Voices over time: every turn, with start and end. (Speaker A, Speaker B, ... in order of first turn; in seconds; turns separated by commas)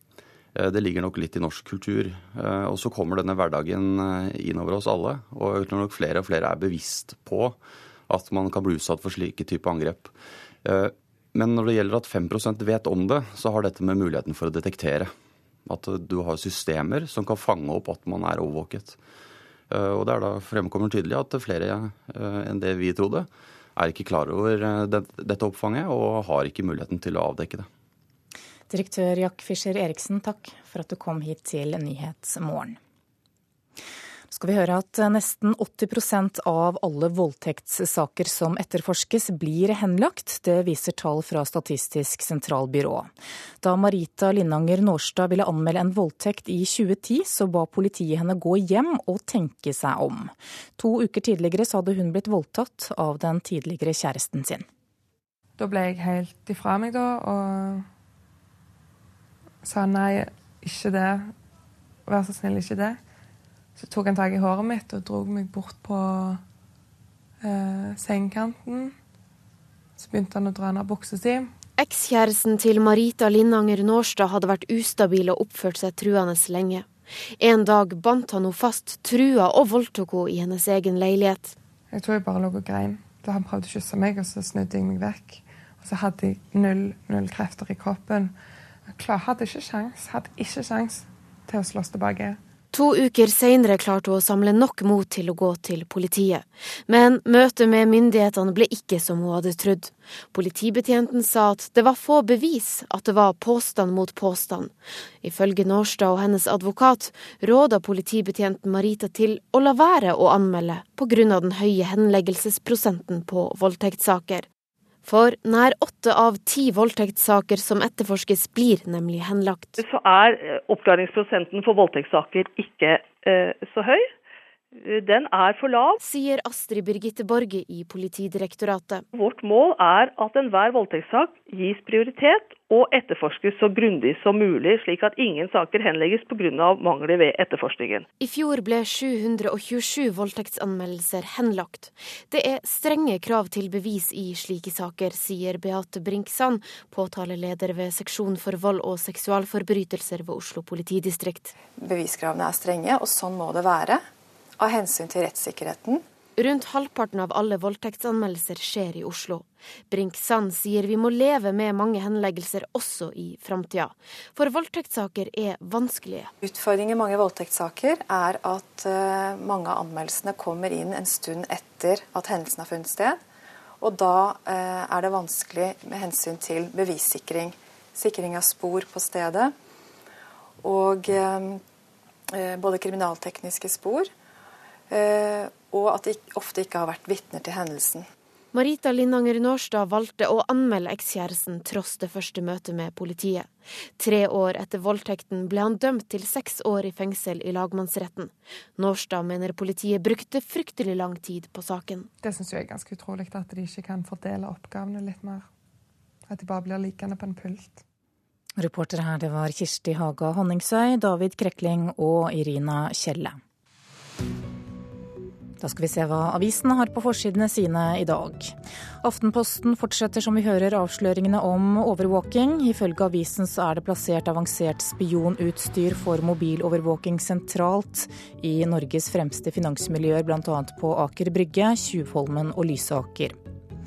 Speaker A: 0.5-7.6, Speaker A: 8.1-10.1, Speaker A: 10.6-15.1, Speaker A: 15.7-19.0, Speaker A: 19.7-27.7, Speaker B: 28.7-32.8, Speaker B: 34.3-43.1, Speaker B: 43.6-54.6, Speaker C: 55.6-57.9, Speaker C: 59.6-61.3, Speaker C: 62.0-63.0, Speaker C: 63.8-66.4, Speaker C: 67.4-69.0, Speaker C: 70.0-71.5, Speaker D: 71.8-76.9, Speaker D: 77.4-81.5, Speaker C: 81.9-88.3, Speaker C: 88.9-92.4, Speaker D: 92.7-114.5, Speaker D: 115.0-119.8, Speaker E: 119.8-124.1, Speaker E: 124.8-126.0, Speaker D: 126.0-129.0, Speaker E: 129.1-138.1, Speaker D: 138.2-151.5, Speaker F: 151.8-154.0, Speaker F: 154.6-156.0, Speaker D: 156.4-166.3, Speaker F: 166.4-173.2, Speaker F: 173.8-179.5, Speaker F: 180.6-181.6, Speaker F: 182.3-184.1, Speaker F: 184.9-188.1, Speaker D: 188.5-202.1, Speaker C: 202.2-205.5, Speaker C: 206.3-207.8, Speaker B: 208.6-213.4, Speaker B: 215.6-233.4